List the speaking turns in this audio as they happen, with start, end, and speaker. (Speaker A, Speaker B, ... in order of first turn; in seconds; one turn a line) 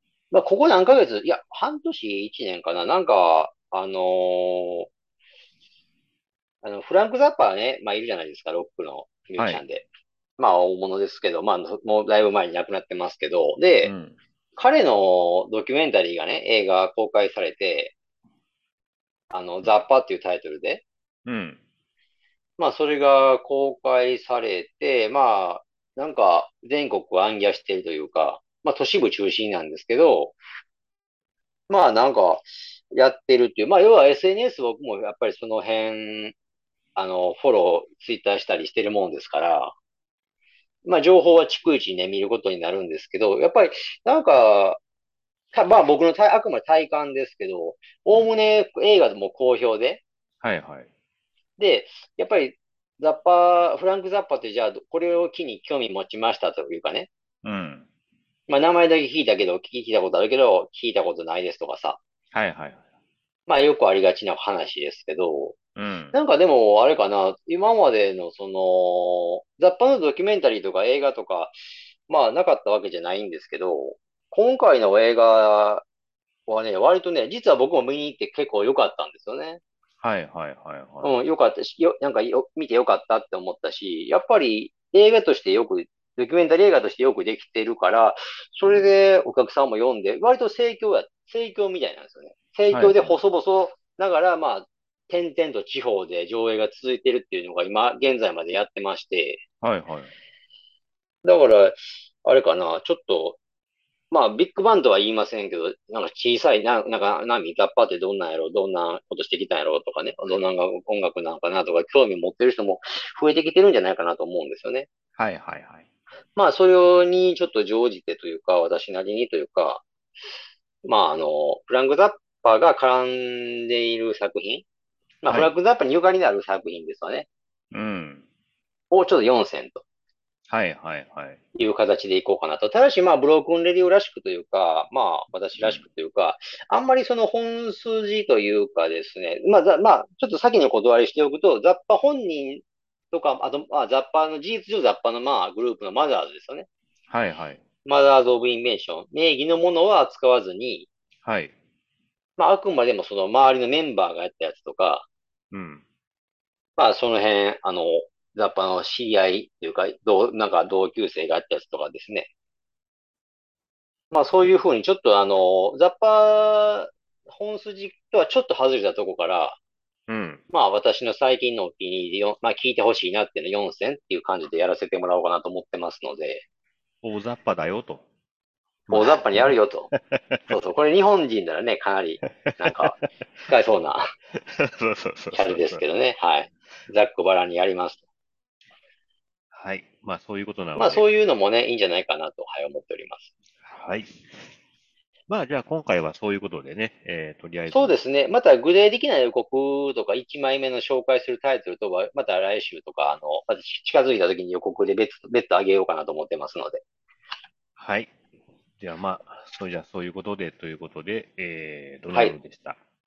Speaker A: 0.3-4.9
Speaker A: 6.6-9.8
Speaker B: 9.4-9.6
Speaker A: 10.4-13.9
Speaker B: 13.8-14.2
Speaker A: 14.6-17.9
Speaker A: 19.3-20.8
Speaker B: 21.2-21.6
Speaker A: 22.6-30.4
Speaker A: 31.7-36.3
Speaker A: 37.0-39.7
Speaker A: 40.8-44.8
Speaker A: 45.5-50.0
Speaker B: 50.4-50.9
Speaker A: 51.6-57.1
Speaker B: 57.4-57.9
Speaker A: 58.5-62.0
Speaker B: 62.3-62.8
Speaker A: 63.5-65.6
Speaker B: 65.8-66.2
Speaker A: 66.1-71.5
Speaker A: 72.1-75.8
Speaker A: 76.5-79.6
Speaker B: 80.0-81.1
Speaker A: 81.0-99.4
Speaker B: 88.6-88.9
Speaker B: 92.7-93.2
Speaker B: 99.6-100.1
Speaker A: 101.2-103.4
Speaker A: 104.1-114.9
Speaker B: 115.2-115.8
Speaker A: 116.3-119.8
Speaker A: 120.8-124.6
Speaker A: 125.2-127.3
Speaker B: 125.3-125.5
Speaker B: 127.7-128.2
Speaker A: 128.9-129.8
Speaker B: 130.5-131.4
Speaker A: 131.6-146.7
Speaker B: 135.6-135.8
Speaker B: 147.1-147.6
Speaker A: 147.8-150.9
Speaker B: 151.2-151.5
Speaker A: 152.4-155.1
Speaker B: 155.5-155.8
Speaker A: 156.8-162.3
Speaker A: 164.1-169.6
Speaker B: 164.3-164.6
Speaker B: 170.1-170.4
Speaker A: 170.5-176.4
Speaker B: 177.0-178.0
Speaker B: 178.9-180.5
Speaker A: 178.9-179.9
Speaker A: 180.5-184.0
Speaker B: 182.3-183.5
Speaker B: 184.3-185.8
Speaker A: 185.3-188.0
Speaker B: 189.5-191.0
Speaker A: 190.8-193.3
Speaker B: 193.6-194.5
Speaker B: 195.3-198.0
Speaker A: 197.7-206.8
Speaker B: 207.8-208.1
Speaker B: 208.8-212.8